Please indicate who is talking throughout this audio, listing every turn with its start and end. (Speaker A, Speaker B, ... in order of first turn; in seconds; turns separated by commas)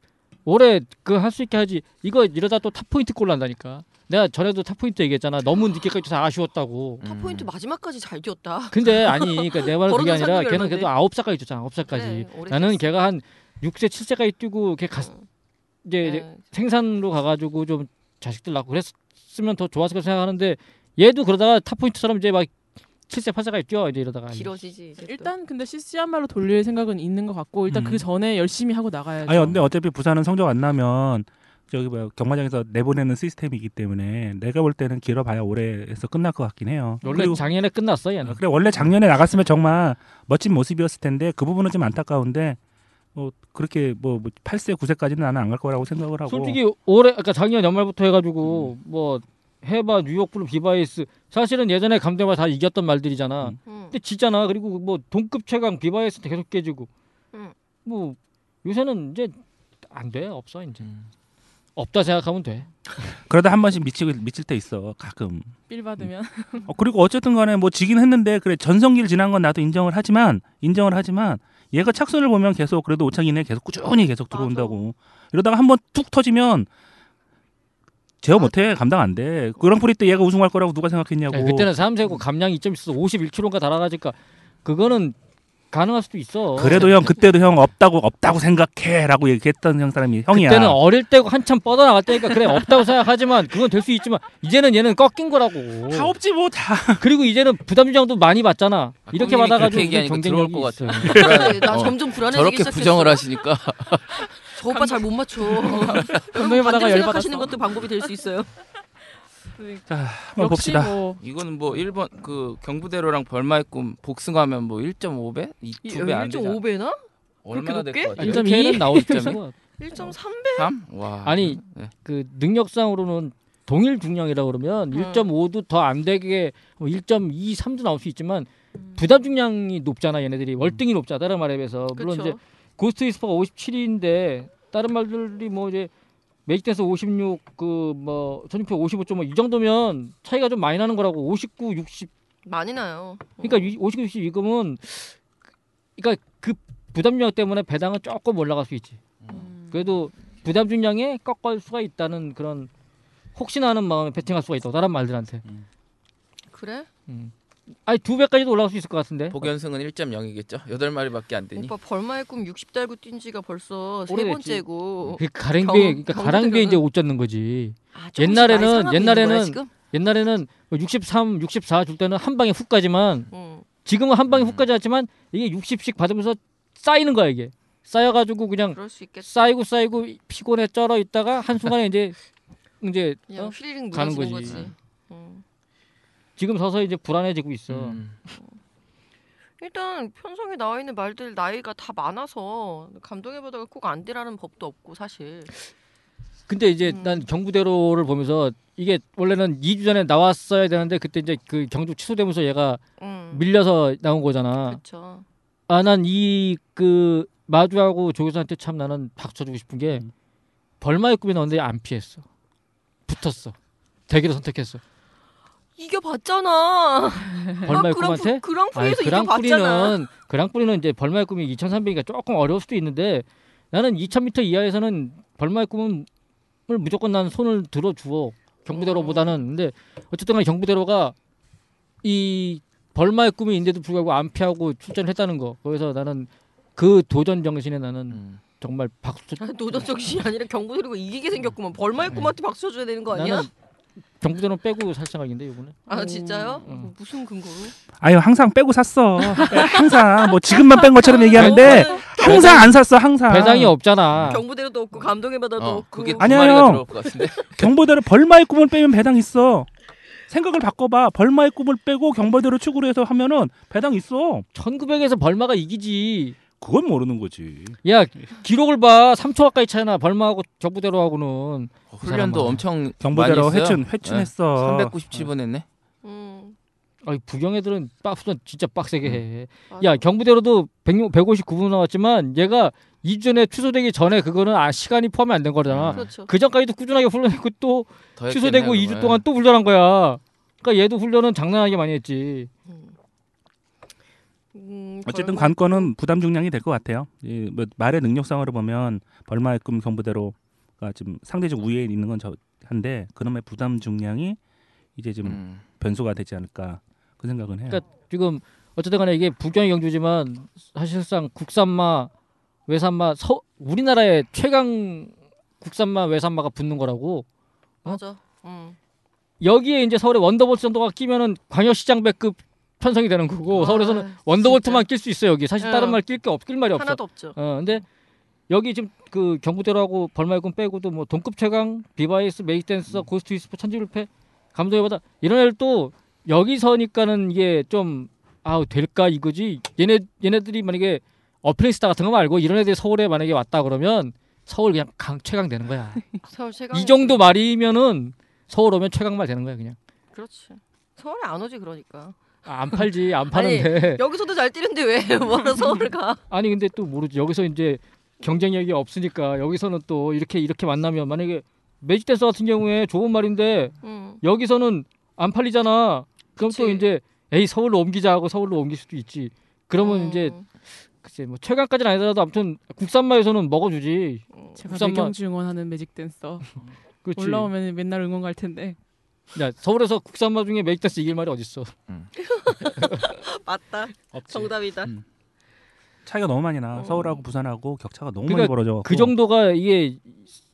Speaker A: 0.5-7.0, Speaker B: 7.0-7.5, Speaker C: 7.0-10.9, Speaker A: 8.7-15.1, Speaker C: 11.8-12.8, Speaker C: 15.0-15.2, Speaker A: 15.8-22.5, Speaker C: 16.0-16.5, Speaker A: 23.1-24.6, Speaker C: 24.3-25.3, Speaker D: 25.0-29.7, Speaker E: 27.7-28.1, Speaker E: 29.3-37.4, Speaker A: 37.0-38.4, Speaker D: 37.1-37.4, Speaker E: 38.2-42.6, Speaker E: 43.1-46.6, Speaker A: 46.3-56.9, Speaker B: 48.4-48.7, Speaker C: 53.6-54.0, Speaker A: 57.9-59.4, Speaker A: 59.9-60.9, Speaker A: 61.8-62.7, Speaker E: 63.3-66.0, Speaker D: 65.7-66.7, Speaker E: 66.7-76.7, Speaker C: 74.3-74.8, Speaker E: 78.2-81.7, Speaker A: 81.3-85.2, Speaker A: 85.7-87.1, Speaker E: 86.5-90.8, Speaker B: 86.7-87.0, Speaker A: 90.3-96.1, Speaker E: 95.9-97.0, Speaker A: 97.0-101.5, Speaker B: 99.1-104.3, Speaker C: 101.0-103.3, Speaker C: 104.4-108.5, Speaker D: 104.7-107.9, Speaker B: 105.7-106.2, Speaker D: 109.6-111.2, Speaker E: 109.9-111.0, Speaker B: 111.2-116.6, Speaker C: 115.8-118.3, Speaker B: 117.4-119.4, Speaker A: 118.2-119.5, Speaker D: 118.2-119.4, Speaker C: 119.8-120.7, Speaker B: 120.5-121.9, Speaker A: 121.2-135.9, Speaker C: 124.9-125.3, Speaker C: 131.9-132.4, Speaker A: 136.5-142.1, Speaker C: 142.5-143.8, Speaker A: 143.4-145.2, Speaker A: 146.0-149.0, Speaker B: 149.2-149.5, Speaker D: 149.3-149.9, Speaker A: 149.6-152.7, Speaker A: 153.3-155.4, Speaker C: 156.5-156.9, Speaker A: 157.8-159.5, Speaker B: 159.3-161.7, Speaker C: 161.6-166.8, Speaker A: 164.1-164.6, Speaker A: 165.2-173.3, Speaker C: 167.9-169.7, Speaker C: 173.3-173.7, Speaker A: 173.8-182.2, Speaker B: 174.3-174.6, Speaker C: 178.7-179.5, Speaker A: 182.8-184.7, Speaker C: 183.3-185.4, Speaker B: 184.4-184.7, Speaker A: 186.4-188.0, Speaker B: 187.7-188.2, Speaker C: 188.3-188.6, Speaker C: 189.6-195.5, Speaker A: 196.5-204.8, Speaker C: 196.8-197.3, Speaker C: 203.0-203.5, Speaker C: 204.7-205.2, Speaker A: 205.7-210.1, Speaker A: 210.8-212.2, Speaker A: 213.1-213.6, Speaker A: 214.1-214.8, Speaker C: 215.8-220.0, Speaker A: 217.6-226.1, Speaker A: 226.7-231.2, Speaker C: 228.7-229.4, Speaker A: 232.0-239.4, Speaker B: 238.1-238.4, Speaker C: 239.4-243.5, Speaker A: 243.1-243.5, Speaker A: 244.2-245.8, Speaker D: 245.9-246.7, Speaker C: 245.9-247.8, Speaker E: 248.0-253.7, Speaker C: 249.4-252.8, Speaker A: 251.3-254.4, Speaker C: 254.2-256.6, Speaker B: 255.6-257.7, Speaker E: 256.2-256.9, Speaker E: 257.6-259.7, Speaker E: 260.3-264.5, Speaker A: 264.5-266.4, Speaker E: 266.6-267.8, Speaker A: 267.8-272.6, Speaker B: 271.9-275.7, Speaker E: 273.0-275.3, Speaker C: 276.0-276.6, Speaker A: 277.0-292.5, Speaker C: 279.7-280.1, Speaker B: 285.7-286.1, Speaker C: 285.9-286.3, Speaker B: 288.2-289.2, Speaker C: 292.7-293.0, Speaker C: 294.5-295.9, Speaker E: 295.1-304.4, Speaker E: 305.0-307.8, Speaker B: 305.2-305.6, Speaker A: 307.7-312.1, Speaker A: 312.7-317.3, Speaker C: 317.8-318.8, Speaker A: 319.4-327.9, Speaker C: 323.5-324.9, Speaker C: 325.6-326.0, Speaker C: 326.7-327.4, Speaker A: 328.5-346.2, Speaker C: 346.2-347.2, Speaker A: 346.7-349.8, Speaker C: 350.1-356.2, Speaker A: 352.4-354.0, Speaker A: 356.3-370.4, Speaker C: 363.8-364.2, Speaker C: 366.4-366.8, Speaker C: 369.8-370.5, Speaker A: 371.0-375.1, Speaker C: 374.3-374.6, Speaker D: 374.6-376.4, Speaker A: 377.0-377.5, Speaker D: 377.2-378.8, Speaker A: 379.4-381.8, Speaker C: 382.2-384.9, Speaker A: 382.7-383.1, Speaker E: 384.1-385.0, Speaker E: 386.1-389.1, Speaker C: 386.7-387.2, Speaker A: 388.3-390.3